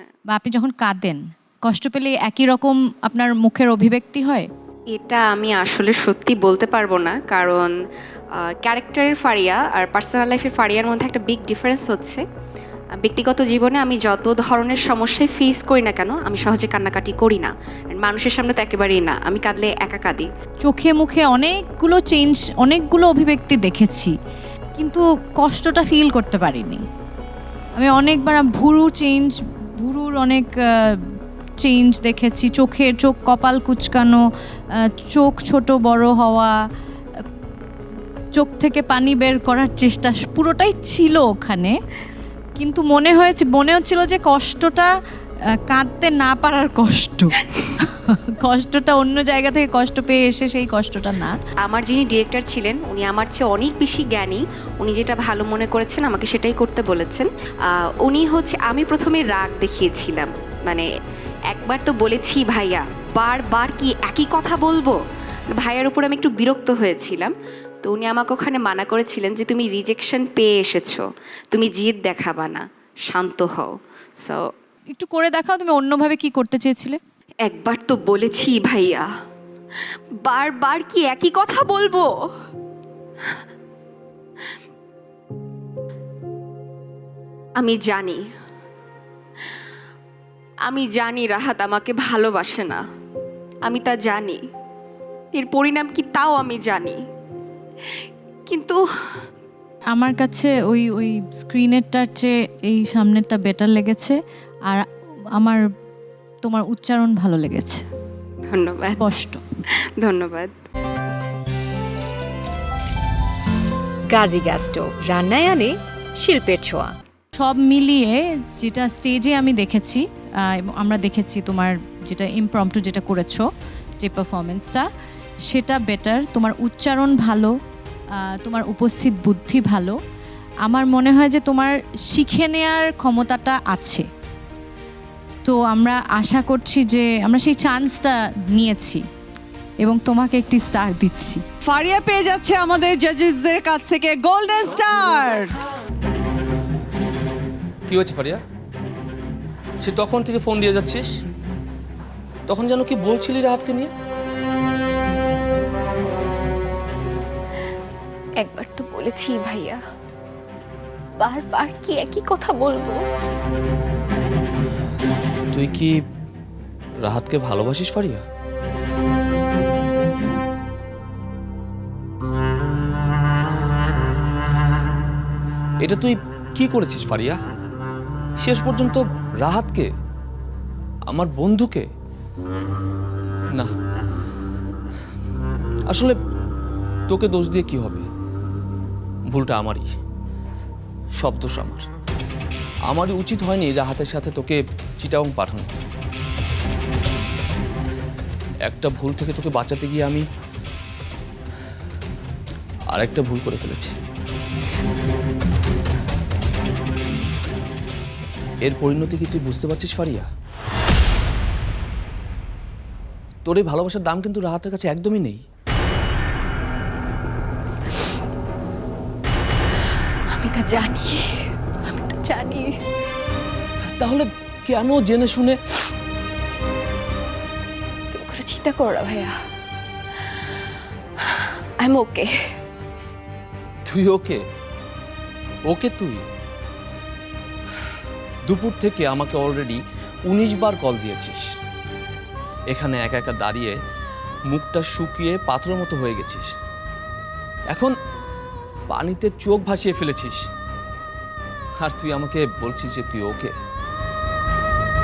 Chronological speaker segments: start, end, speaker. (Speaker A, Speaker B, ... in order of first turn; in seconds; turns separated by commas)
Speaker A: 0.3-4.5, Speaker B: 4.9-7.8, Speaker B: 8.6-12.2, Speaker B: 13.0-20.3, Speaker A: 20.6-24.1, Speaker A: 24.8-26.8, Speaker A: 27.8-31.0, Speaker A: 31.6-34.2, Speaker A: 34.8-36.6, Speaker A: 38.4-41.8, Speaker A: 42.6-44.9, Speaker A: 45.7-51.4, Speaker B: 51.6-57.3, Speaker B: 58.0-60.9, Speaker B: 61.5-65.0, Speaker B: 65.6-74.4, Speaker A: 75.0-77.0, Speaker B: 77.5-79.1, Speaker B: 80.2-82.1, Speaker B: 87.6-88.2, Speaker B: 90.7-92.8, Speaker B: 93.7-94.4, Speaker B: 95.3-97.0, Speaker B: 98.5-98.8, Speaker A: 99.9-104.8, Speaker A: 106.4-107.8, Speaker B: 108.5-109.0, Speaker A: 109.0-109.4, Speaker B: 110.0-110.5, Speaker C: 114.1-116.9, Speaker A: 117.4-123.5, Speaker A: 124.0-124.9, Speaker A: 125.5-127.5, Speaker A: 128.3-130.0, Speaker A: 130.7-134.1, Speaker A: 135.5-139.0, Speaker A: 139.8-141.4, Speaker D: 141.6-145.6, Speaker E: 147.9-148.4, Speaker E: 149.8-151.1, Speaker E: 152.5-153.9, Speaker B: 158.4-159.8, Speaker B: 161.2-163.0, Speaker E: 165.5-165.9, Speaker E: 167.0-168.2, Speaker E: 175.8-177.4, Speaker E: 178.4-179.9, Speaker E: 181.1-181.9, Speaker E: 185.9-186.2, Speaker E: 187.1-188.1, Speaker E: 189.3-189.9, Speaker E: 191.2-191.9, Speaker E: 192.9-195.7, Speaker E: 198.7-200.2, Speaker E: 202.9-203.9, Speaker E: 208.7-210.3, Speaker E: 213.4-215.4, Speaker B: 220.3-222.7, Speaker E: 224.0-225.6, Speaker B: 228.1-229.4, Speaker B: 231.3-232.3, Speaker E: 233.9-234.4, Speaker E: 235.7-236.3, Speaker E: 238.5-241.5, Speaker E: 242.7-243.8, Speaker E: 244.5-246.5, Speaker E: 248.9-250.4, Speaker E: 251.8-253.5